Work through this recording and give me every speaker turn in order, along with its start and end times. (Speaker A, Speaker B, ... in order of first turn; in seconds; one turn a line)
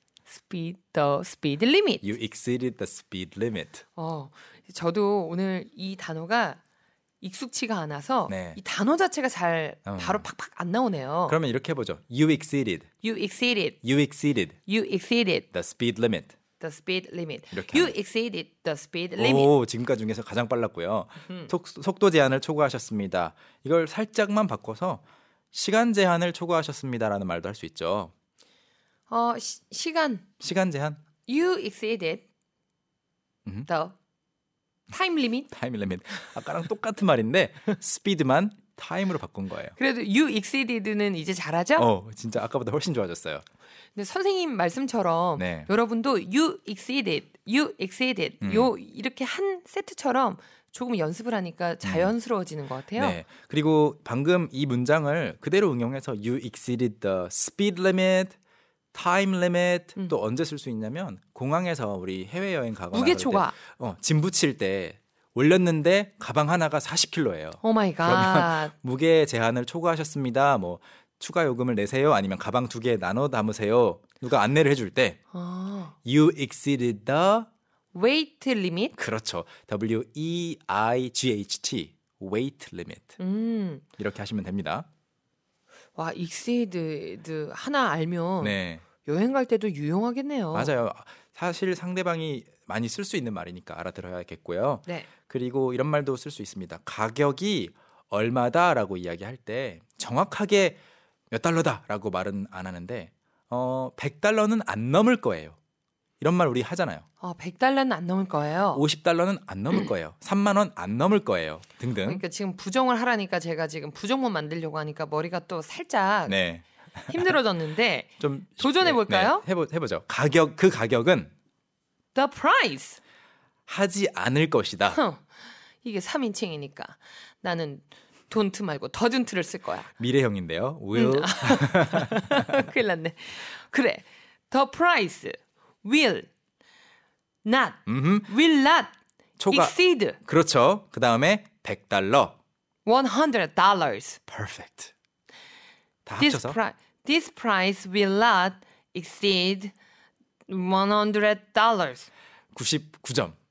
Speaker A: 0.3-2.0
Speaker B: 2.0-3.8
Speaker A: 4.0-6.6
Speaker A: 7.2-11.4
Speaker B: 8.3-8.6
Speaker B: 9.8-10.2
Speaker B: 11.2-12.9
Speaker A: 13.0-13.8
Speaker B: 13.8-14.6
Speaker A: 14.7-15.4
Speaker B: 15.5-16.3
Speaker A: 16.6-19.5
Speaker B: 17.5-17.9
Speaker B: 19.2-28.1
Speaker A: 29.1-30.2
Speaker B: 30.4-31.0
Speaker A: 31.3-32.2
Speaker A: 33.7-33.9
Speaker A: 34.9-35.5
Speaker B: 35.5-39.8
Speaker A: 39.8-41.9
Speaker B: 41.8-43.4
Speaker A: 43.9-53.2
Speaker B: 45.4-45.7
Speaker B: 48.4-48.7
Speaker B: 51.8-52.1
Speaker B: 52.9-58.4
Speaker B: 58.9-75.2
Speaker A: 62.9-63.5
Speaker A: 67.6-68.7
Speaker A: 75.3-75.9
Speaker B: 76.0-77.5
Speaker A: 77.9-78.9
Speaker B: 78.9-83.2
Speaker A: 83.2-83.8
Speaker B: 84.0-84.9
Speaker A: 85.9-90.7
Speaker B: 88.4-88.8
Speaker B: 90.5-100.8
Speaker B: 101.3-105.5
Speaker B: 106.2-107.0
Speaker A: 107.2-108.8
Speaker B: 108.7-112.2
Speaker A: 112.0-116.4
Speaker B: 116.3-117.3
Speaker A: 117.1-119.4
Speaker B: 118.2-121.3
Speaker A: 122.1-123.0
Speaker B: 123.7-125.0
Speaker A: 124.9-125.3
Speaker A: 125.8-129.9
Speaker B: 130.0-132.5
Speaker A: 130.9-136.3
Speaker A: 137.4-138.9
Speaker B: 137.8-138.3
Speaker B: 139.4-142.4
Speaker A: 139.5-140.2
Speaker A: 142.8-144.2
Speaker B: 144.3-144.9
Speaker B: 146.1-146.6
Speaker A: 146.2-149.7
Speaker A: 150.5-152.1
Speaker B: 152.5-153.3